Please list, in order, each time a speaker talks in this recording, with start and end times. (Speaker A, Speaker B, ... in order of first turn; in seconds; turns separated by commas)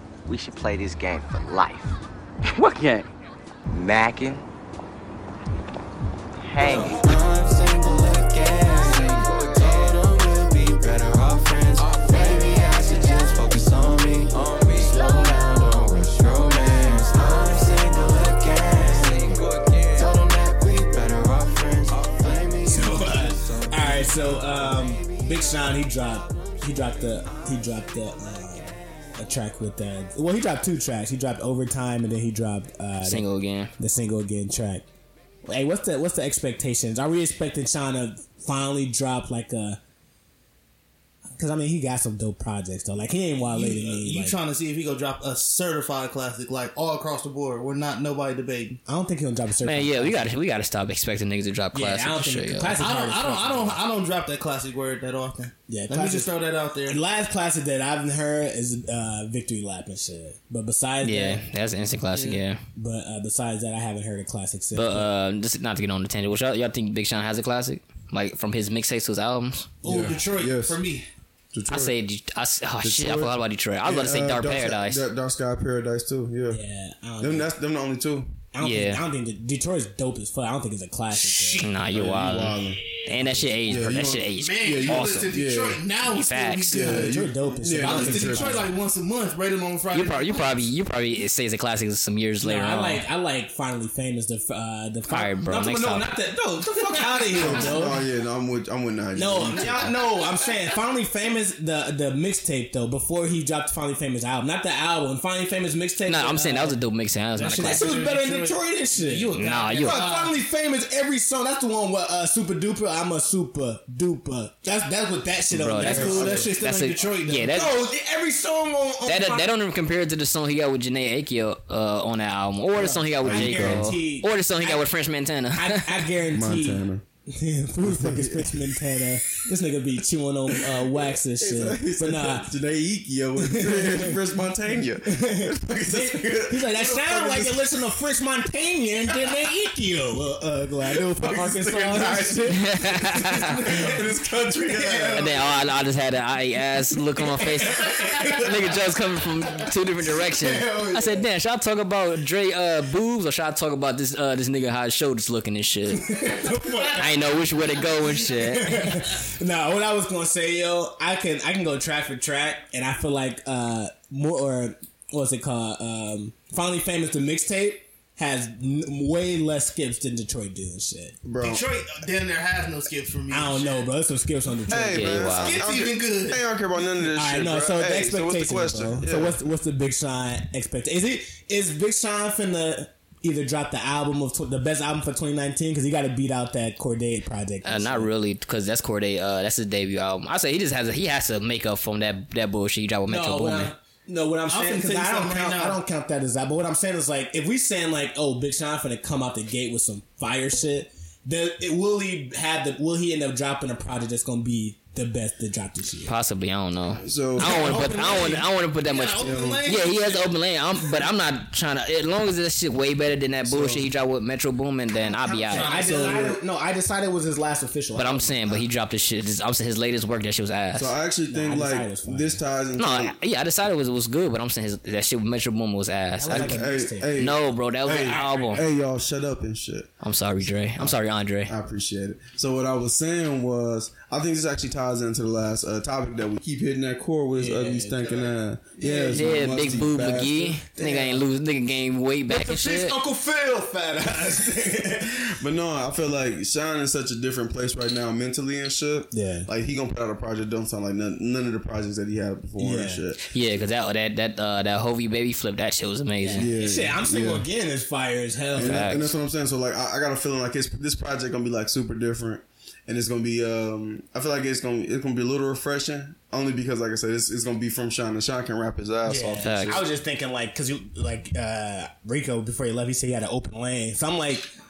Speaker A: 0.2-1.9, Speaker A: 2.5-3.1, Speaker A: 3.7-4.4, Speaker A: 6.5-7.0, Speaker B: 6.7-25.2, Speaker C: 22.7-33.2, Speaker D: 33.0-33.7, Speaker C: 33.8-34.8, Speaker C: 35.4-39.8, Speaker C: 41.4-44.4, Speaker E: 43.5-48.8, Speaker C: 48.9-50.3, Speaker D: 49.6-52.8, Speaker C: 51.7-53.8, Speaker E: 52.8-57.0, Speaker C: 55.7-56.3, Speaker C: 56.9-61.4, Speaker D: 61.0-62.6, Speaker E: 62.1-62.4, Speaker C: 62.8-65.1, Speaker D: 64.7-69.7, Speaker E: 69.8-71.0, Speaker F: 69.8-70.8, Speaker F: 71.5-71.9, Speaker D: 71.7-75.0, Speaker F: 72.8-76.6, Speaker C: 76.5-77.5, Speaker F: 77.2-78.3, Speaker C: 78.5-81.7, Speaker D: 78.6-79.0, Speaker E: 81.1-82.1, Speaker D: 81.6-85.3, Speaker F: 81.9-82.8, Speaker E: 82.9-83.4, Speaker C: 83.2-83.6, Speaker F: 83.7-85.8, Speaker E: 84.3-87.2, Speaker D: 86.0-86.8, Speaker F: 86.7-88.7, Speaker C: 86.8-88.7, Speaker E: 87.8-90.6, Speaker D: 89.9-93.0, Speaker C: 92.4-98.0, Speaker D: 95.1-96.1, Speaker E: 96.8-97.9, Speaker F: 97.3-99.9, Speaker C: 99.1-106.8, Speaker D: 106.1-108.0, Speaker E: 107.3-110.4, Speaker C: 107.6-116.5, Speaker D: 109.3-110.1, Speaker D: 115.5-117.8, Speaker E: 115.8-117.7, Speaker F: 115.9-116.5, Speaker C: 117.5-119.5, Speaker D: 119.0-126.1, Speaker C: 122.8-124.8, Speaker F: 123.2-123.9, Speaker C: 125.5-132.5, Speaker F: 126.3-127.0, Speaker F: 127.8-129.1, Speaker F: 130.5-138.0, Speaker C: 133.4-134.2, Speaker C: 135.0-142.6, Speaker F: 140.9-145.5, Speaker D: 142.6-143.5, Speaker C: 144.6-145.5, Speaker D: 145.1-156.3, Speaker C: 147.7-148.7, Speaker C: 150.1-151.2, Speaker C: 156.0-157.3, Speaker E: 156.7-156.9, Speaker D: 156.9-158.8, Speaker C: 158.2-171.2, Speaker F: 171.2-171.6, Speaker E: 171.4-173.8, Speaker C: 173.3-175.3, Speaker F: 174.7-179.4, Speaker D: 174.9-175.7, Speaker E: 175.3-176.4, Speaker C: 177.2-188.1, Speaker D: 187.6-193.7, Speaker C: 193.1-206.1, Speaker E: 194.5-195.8, Speaker D: 206.1-215.8, Speaker F: 207.0-207.8, Speaker E: 207.4-210.3, Speaker C: 207.9-208.3, Speaker F: 209.2-209.7, Speaker F: 213.5-213.9, Speaker C: 215.1-218.7, Speaker E: 215.5-216.3, Speaker F: 215.7-216.4, Speaker D: 217.9-220.9, Speaker F: 220.7-223.1, Speaker C: 221.3-222.4, Speaker D: 222.8-226.6, Speaker C: 226.2-227.2, Speaker F: 226.3-229.9, Speaker D: 227.2-228.6, Speaker E: 228.1-228.6, Speaker D: 230.0-231.5, Speaker F: 230.4-240.6, Speaker C: 237.3-239.8, Speaker D: 239.1-242.9, Speaker C: 240.8-241.2, Speaker C: 242.3-245.3, Speaker F: 245.1-253.2, Speaker C: 249.1-249.5, Speaker C: 252.6-253.0, Speaker D: 253.2-256.5, Speaker C: 256.2-259.1, Speaker F: 256.3-257.4, Speaker F: 258.5-269.9, Speaker D: 258.6-259.1, Speaker C: 269.1-274.5, Speaker D: 269.4-269.8